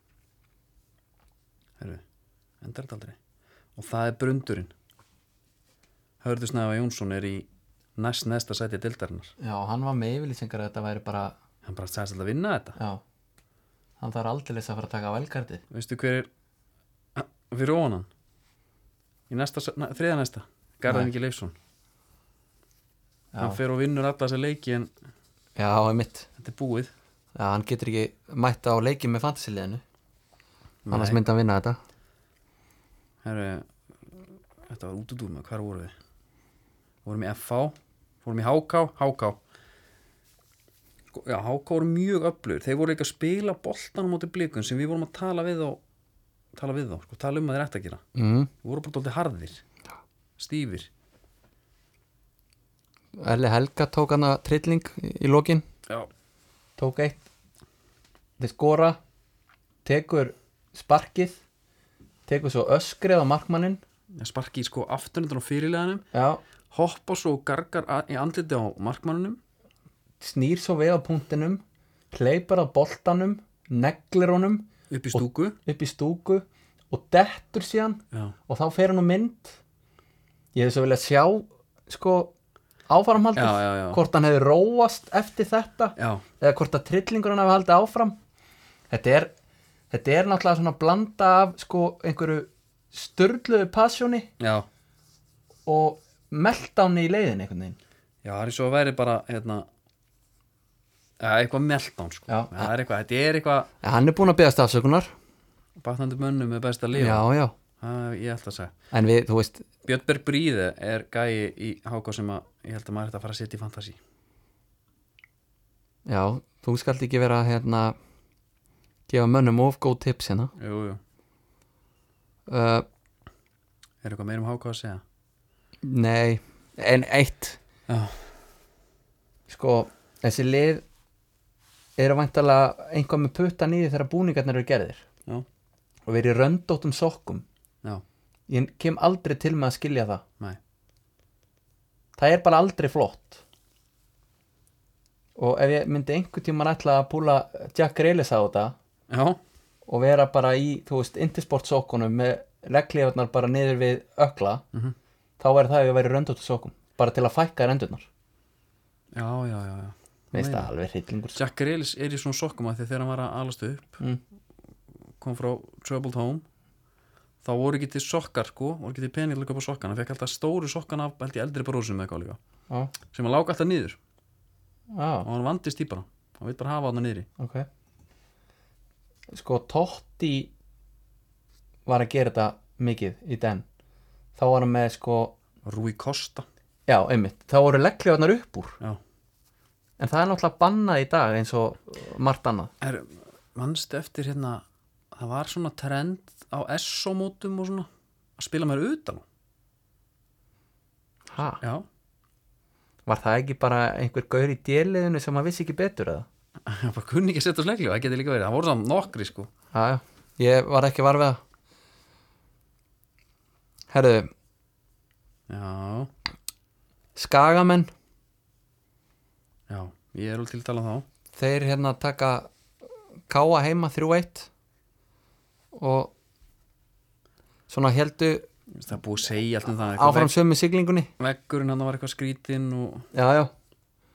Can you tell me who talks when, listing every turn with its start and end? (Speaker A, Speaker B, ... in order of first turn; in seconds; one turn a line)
Speaker A: 2.6-3.2
Speaker A: 3.8-4.7
Speaker A: 6.2-9.3
Speaker B: 9.4-11.4
Speaker A: 11.6-12.8
Speaker B: 14.0-15.6
Speaker A: 15.7-16.3
Speaker A: 17.1-18.1
Speaker A: 19.3-21.6
Speaker B: 23.3-23.6
Speaker A: 23.4-24.9
Speaker B: 25.6-26.3
Speaker A: 26.4-26.9
Speaker B: 27.4-29.8
Speaker A: 30.9-31.2
Speaker B: 30.9-31.8
Speaker A: 33.2-35.9
Speaker A: 37.0-39.4
Speaker A: 41.1-45.8
Speaker A: 46.5-48.0
Speaker B: 48.1-48.5
Speaker A: 48.6-49.6
Speaker A: 50.4-50.9
Speaker B: 53.2-55.6
Speaker B: 56.8-57.2
Speaker B: 58.4-59.0
Speaker B: 59.9-61.4
Speaker B: 62.3-63.8
Speaker A: 64.1-66.0
Speaker B: 66.1-66.4
Speaker A: 66.7-69.4
Speaker B: 70.2-79.6
Speaker A: 74.9-75.6
Speaker B: 80.5-82.3
Speaker B: 82.9-88.2
Speaker A: 83.4-84.0
Speaker A: 86.0-86.2
Speaker B: 88.9-89.3
Speaker B: 89.9-94.3
Speaker A: 94.4-94.7
Speaker B: 95.7-97.8
Speaker A: 98.2-99.7
Speaker A: 101.2-103.7
Speaker B: 102.3-102.7
Speaker B: 103.8-105.1
Speaker A: 105.8-107.2
Speaker B: 106.9-107.5
Speaker A: 107.8-108.7
Speaker B: 108.9-109.7
Speaker A: 109.8-114.0
Speaker B: 116.1-118.0
Speaker B: 119.1-120.5
Speaker A: 120.6-121.0
Speaker B: 122.5-122.8
Speaker A: 124.0-125.0
Speaker B: 125.8-127.6
Speaker A: 127.9-128.2
Speaker B: 129.5-130.8
Speaker B: 132.0-135.0
Speaker B: 136.1-137.4
Speaker B: 138.5-140.2
Speaker B: 142.2-143.4
Speaker B: 145.4-148.8
Speaker A: 149.1-149.4
Speaker B: 149.9-154.6
Speaker B: 155.4-158.1
Speaker A: 159.1-160.7
Speaker B: 160.3-161.4
Speaker A: 161.3-164.0
Speaker A: 165.2-166.4
Speaker A: 167.4-172.4
Speaker A: 173.1-174.0
Speaker B: 174.9-175.3
Speaker A: 175.2-177.3
Speaker B: 177.4-177.7
Speaker B: 179.3-180.5
Speaker B: 181.9-183.7
Speaker B: 184.4-185.4
Speaker A: 185.6-186.5
Speaker B: 186.9-188.8
Speaker B: 190.0-192.7
Speaker A: 192.8-199.2
Speaker B: 201.3-201.6
Speaker A: 201.6-201.9
Speaker B: 203.1-206.3
Speaker A: 206.7-209.5
Speaker B: 209.7-211.4
Speaker B: 213.9-214.3
Speaker A: 215.5-216.1
Speaker B: 217.2-217.9
Speaker A: 219.7-221.1
Speaker B: 221.4-222.5
Speaker B: 223.3-224.5
Speaker B: 225.7-226.1
Speaker B: 227.7-228.5
Speaker A: 228.7-230.3
Speaker B: 229.9-231.1
Speaker A: 231.2-233.1
Speaker B: 233.1-233.5